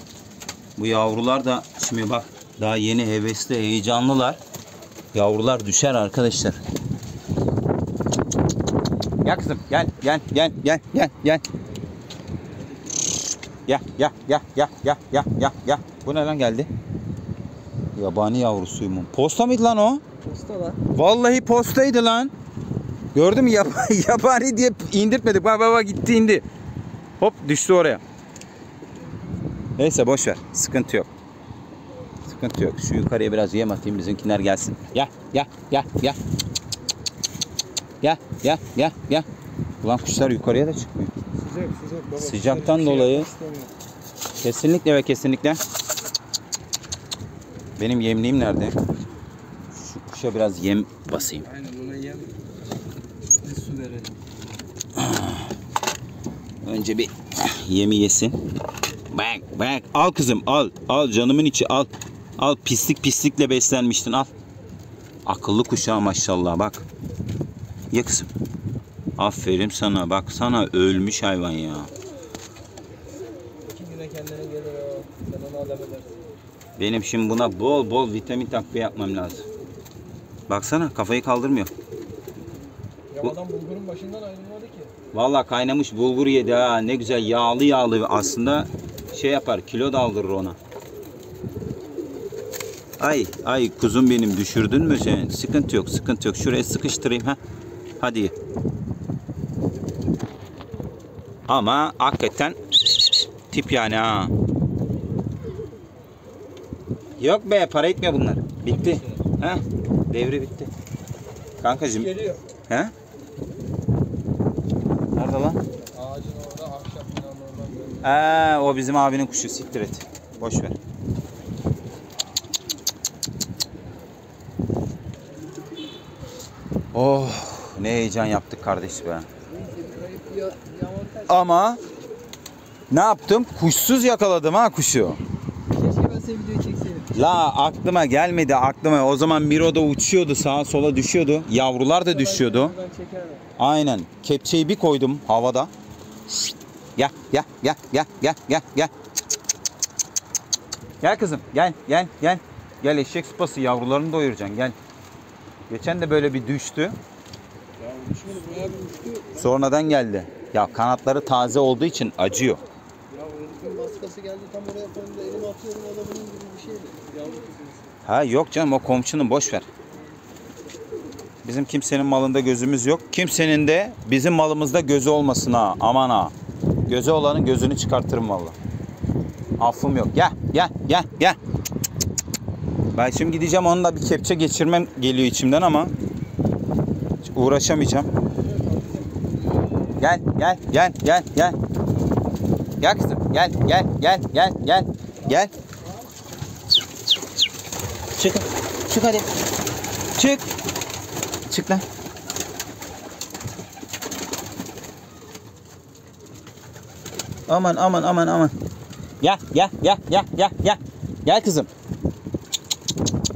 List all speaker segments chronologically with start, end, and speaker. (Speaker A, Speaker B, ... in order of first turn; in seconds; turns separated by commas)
Speaker A: 0.8-4.4, Speaker A: 5.1-6.6, Speaker A: 9.2-11.4, Speaker A: 13.7-16.7, Speaker A: 17.9-20.0, Speaker B: 20.2-20.8, Speaker A: 20.9-22.3, Speaker A: 23.1-26.4, Speaker A: 27.2-28.0, Speaker A: 29.8-31.1, Speaker A: 32.2-36.2, Speaker A: 38.0-39.2, Speaker A: 39.8-41.1, Speaker B: 41.4-43.7, Speaker A: 42.2-43.3, Speaker A: 44.4-45.6, Speaker A: 47.8-48.8, Speaker A: 49.7-51.5, Speaker B: 51.4-52.3, Speaker B: 53.4-54.2, Speaker A: 55.0-55.4, Speaker A: 56.6-58.4, Speaker A: 59.1-64.3, Speaker A: 65.2-66.8, Speaker A: 67.9-68.3, Speaker A: 69.2-71.9, Speaker B: 73.7-76.2, Speaker A: 76.8-79.5, Speaker A: 80.5-81.7, Speaker B: 83.1-84.9, Speaker A: 85.1-90.6, Speaker A: 93.0-97.4, Speaker A: 98.0-98.3, Speaker A: 101.5-104.3, Speaker A: 107.2-110.7, Speaker B: 108.7-109.2, Speaker A: 111.6-112.9, Speaker B: 111.8-112.4, Speaker A: 115.1-115.6, Speaker B: 115.9-118.2, Speaker A: 118.0-120.8, Speaker A: 126.9-129.3, Speaker B: 129.5-131.3, Speaker A: 131.3-131.8, Speaker A: 132.9-135.2, Speaker B: 135.7-137.1, Speaker A: 137.1-142.7, Speaker B: 142.1-143.4, Speaker A: 143.6-145.7, Speaker A: 147.0-148.9, Speaker A: 151.0-154.8, Speaker A: 155.7-157.0, Speaker B: 157.8-159.5, Speaker A: 159.3-162.6, Speaker B: 163.1-167.9, Speaker A: 168.0-169.7, Speaker A: 171.4-176.3, Speaker A: 176.9-178.6, Speaker A: 179.6-181.4, Speaker A: 182.9-185.9, Speaker A: 187.2-188.1, Speaker B: 188.5-189.3, Speaker A: 190.0-191.6, Speaker A: 192.8-195.5, Speaker A: 198.2-199.3, Speaker A: 200.2-200.5, Speaker A: 201.5-201.8, Speaker A: 207.5-208.5, Speaker A: 209.2-211.7